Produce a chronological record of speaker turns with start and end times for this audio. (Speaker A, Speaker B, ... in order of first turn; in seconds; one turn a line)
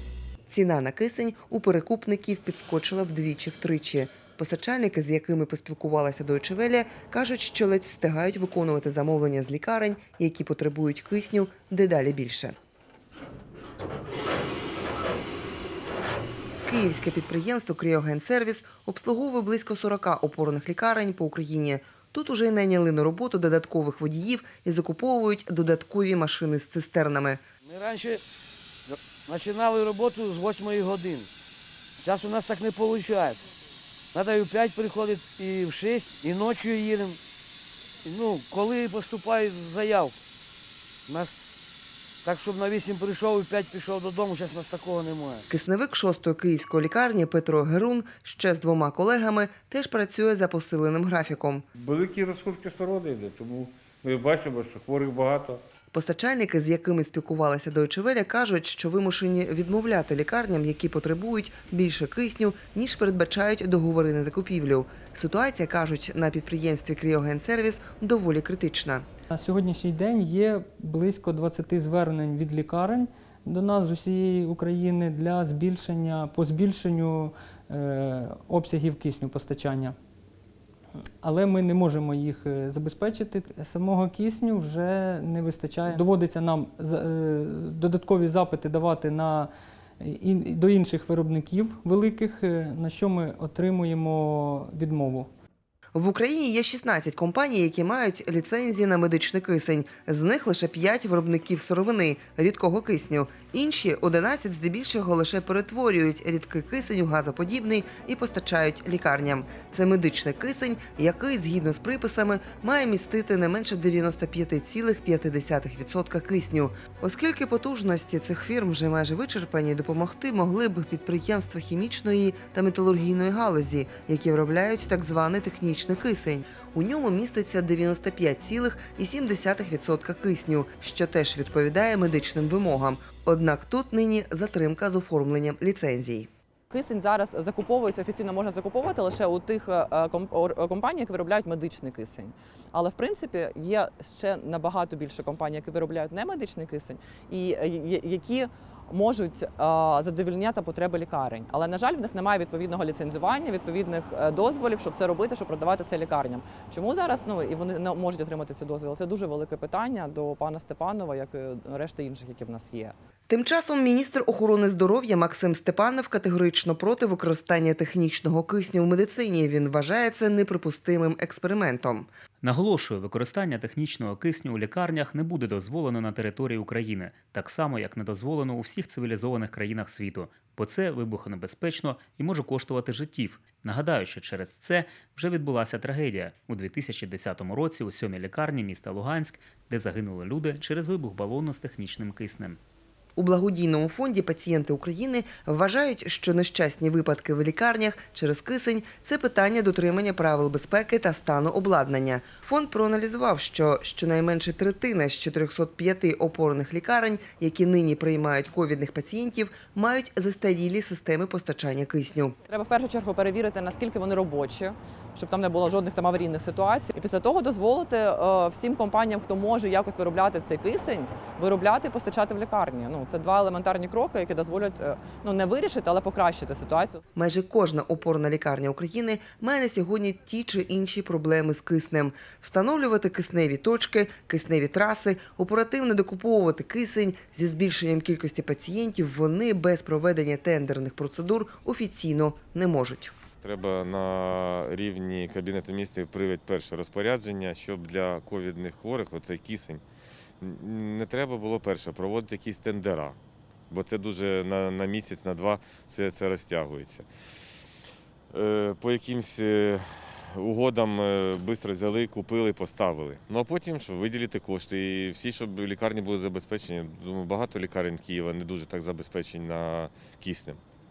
Speaker A: 0.5-12.5
Speaker A: 16.6-27.4
Speaker B: 27.6-28.2
Speaker B: 28.9-31.3
Speaker B: 32.0-33.5
Speaker B: 34.1-37.2
Speaker B: 38.0-40.1
Speaker B: 41.1-41.4
Speaker B: 42.2-45.5
Speaker A: 45.5-51.6
Speaker C: 51.8-55.6
Speaker A: 55.9-69.0
Speaker D: 69.3-79.9
Speaker D: 81.2-95.3
Speaker A: 95.9-136.3
Speaker E: 136.7-162.9
Speaker A: 163.3-172.1
Speaker F: 172.4-192.6
Speaker A: 193.2-212.3
Speaker E: 212.5-227.0
Speaker A: 227.2-243.1
Speaker G: 243.4-249.8
Speaker G: 250.4-253.2
Speaker G: 253.7-257.1
Speaker G: 258.3-270.6